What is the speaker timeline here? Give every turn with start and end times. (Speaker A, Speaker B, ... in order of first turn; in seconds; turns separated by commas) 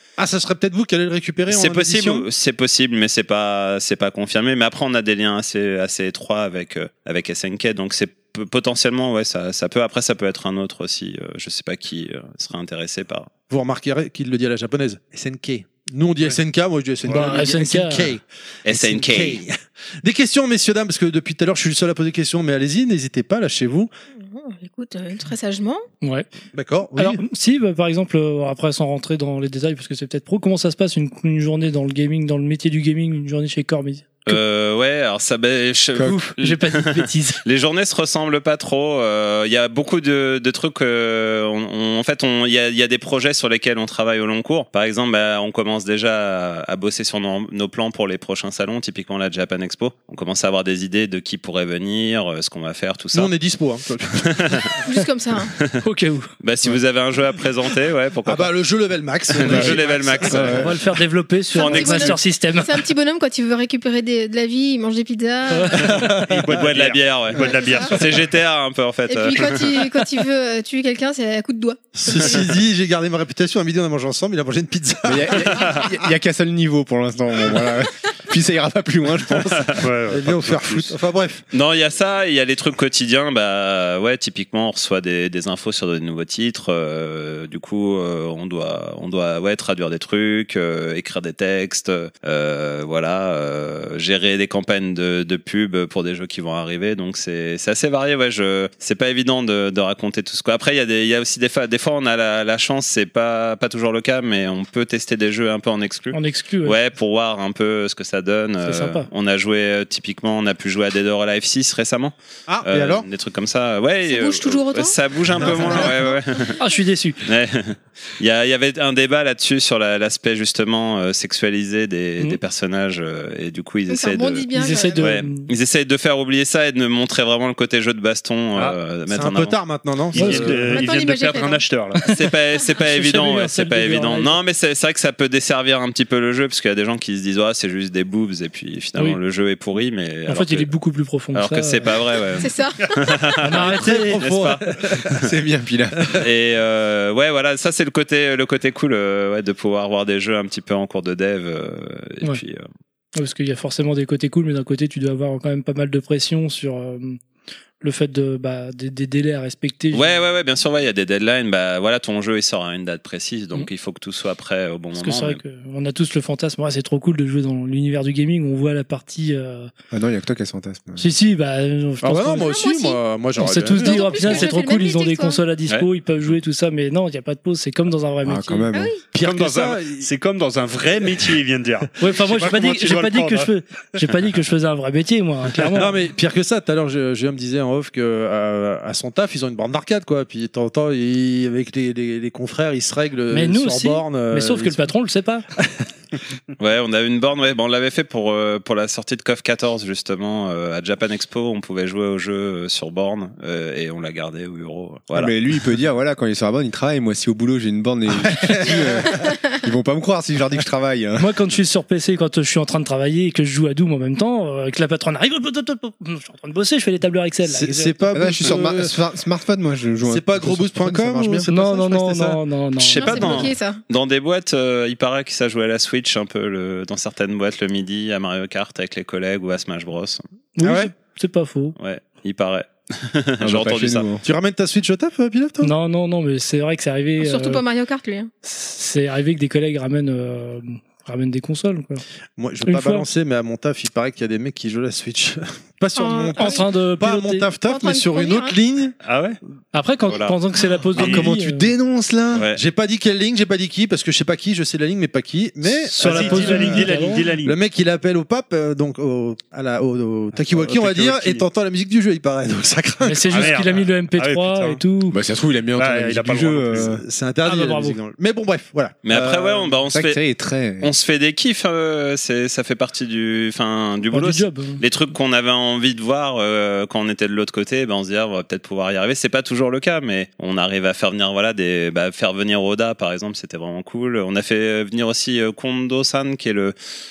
Speaker A: 0.2-2.3, Speaker B: 1.5-13.3, Speaker A: 13.5-23.9, Speaker C: 17.1-18.1, Speaker B: 18.7-19.4, Speaker D: 24.2-25.8, Speaker C: 26.0-26.3, Speaker A: 26.5-27.2, Speaker C: 27.0-34.3, Speaker B: 34.3-53.3, Speaker C: 36.1-37.4, Speaker A: 53.1-54.8, Speaker B: 54.2-54.8, Speaker D: 54.9-55.5, Speaker C: 55.8-56.3, Speaker B: 56.4-58.5, Speaker A: 58.3-60.7, Speaker B: 59.3-60.7, Speaker E: 59.5-60.7, Speaker C: 60.6-62.8, Speaker D: 61.5-66.1, Speaker B: 61.6-62.1, Speaker C: 65.5-66.0, Speaker A: 65.9-66.4, Speaker F: 66.2-68.3, Speaker B: 66.5-69.9, Speaker D: 67.4-68.0, Speaker D: 69.1-72.5, Speaker A: 72.0-75.9, Speaker E: 75.1-79.8, Speaker F: 79.8-81.0, Speaker A: 80.1-81.4, Speaker B: 81.5-116.6, Speaker C: 106.1-106.8, Speaker C: 108.7-109.1, Speaker A: 112.5-113.1, Speaker D: 114.0-116.5, Speaker A: 115.4-115.9, Speaker C: 116.6-117.2, Speaker B: 117.2-124.5, Speaker D: 123.9-125.1, Speaker C: 124.5-125.5, Speaker B: 125.0-129.6, Speaker A: 128.6-130.8, Speaker F: 130.1-132.1, Speaker C: 130.2-130.6, Speaker D: 130.7-131.7, Speaker B: 132.1-140.7, Speaker C: 132.8-134.4, Speaker C: 140.3-141.9, Speaker B: 141.3-145.2, Speaker D: 142.4-143.3, Speaker C: 143.4-144.2, Speaker A: 143.5-145.1, Speaker E: 145.2-146.2, Speaker B: 146.2-152.7, Speaker C: 153.2-157.2, Speaker C: 157.8-160.1, Speaker B: 159.9-165.4, Speaker C: 165.0-169.7, Speaker E: 169.9-171.0, Speaker C: 171.0-172.6, Speaker A: 172.0-174.5, Speaker D: 172.4-173.0, Speaker C: 173.4-178.7, Speaker D: 173.8-175.4, Speaker E: 178.2-178.9, Speaker D: 178.7-179.0, Speaker A: 179.1-180.1, Speaker F: 179.2-184.0, Speaker C: 182.0-185.9, Speaker A: 185.8-194.9, Speaker C: 193.3-195.4, Speaker B: 196.6-205.3, Speaker E: 205.1-211.3, Speaker A: 208.2-209.1, Speaker C: 211.2-218.0, Speaker A: 217.4-218.9, Speaker E: 218.1-222.2, Speaker A: 220.1-222.4, Speaker C: 221.5-223.4, Speaker D: 222.8-223.8, Speaker B: 222.8-230.2, Speaker C: 230.6-231.8, Speaker A: 230.6-230.9, Speaker B: 231.8-234.1, Speaker E: 233.4-234.2, Speaker A: 234.2-235.7, Speaker C: 235.6-237.6, Speaker D: 237.2-238.3, Speaker C: 238.4-242.0, Speaker A: 242.4-248.9, Speaker C: 242.7-243.1, Speaker D: 246.0-246.7, Speaker C: 246.4-247.5, Speaker D: 247.7-248.6, Speaker F: 249.0-249.4, Speaker C: 249.7-251.7, Speaker B: 250.1-250.4, Speaker E: 251.0-252.4, Speaker B: 252.3-252.6, Speaker A: 252.4-256.9, Speaker F: 255.9-257.6, Speaker C: 256.0-257.3, Speaker A: 257.4-263.5, Speaker F: 260.4-261.4, Speaker C: 263.1-265.2, Speaker F: 263.3-264.8, Speaker E: 265.1-267.0, Speaker F: 265.8-266.9, Speaker A: 266.8-269.7, Speaker C: 267.4-268.0, Speaker B: 269.1-270.2, Speaker E: 269.9-270.9, Speaker B: 270.8-286.7, Speaker C: 274.1-274.8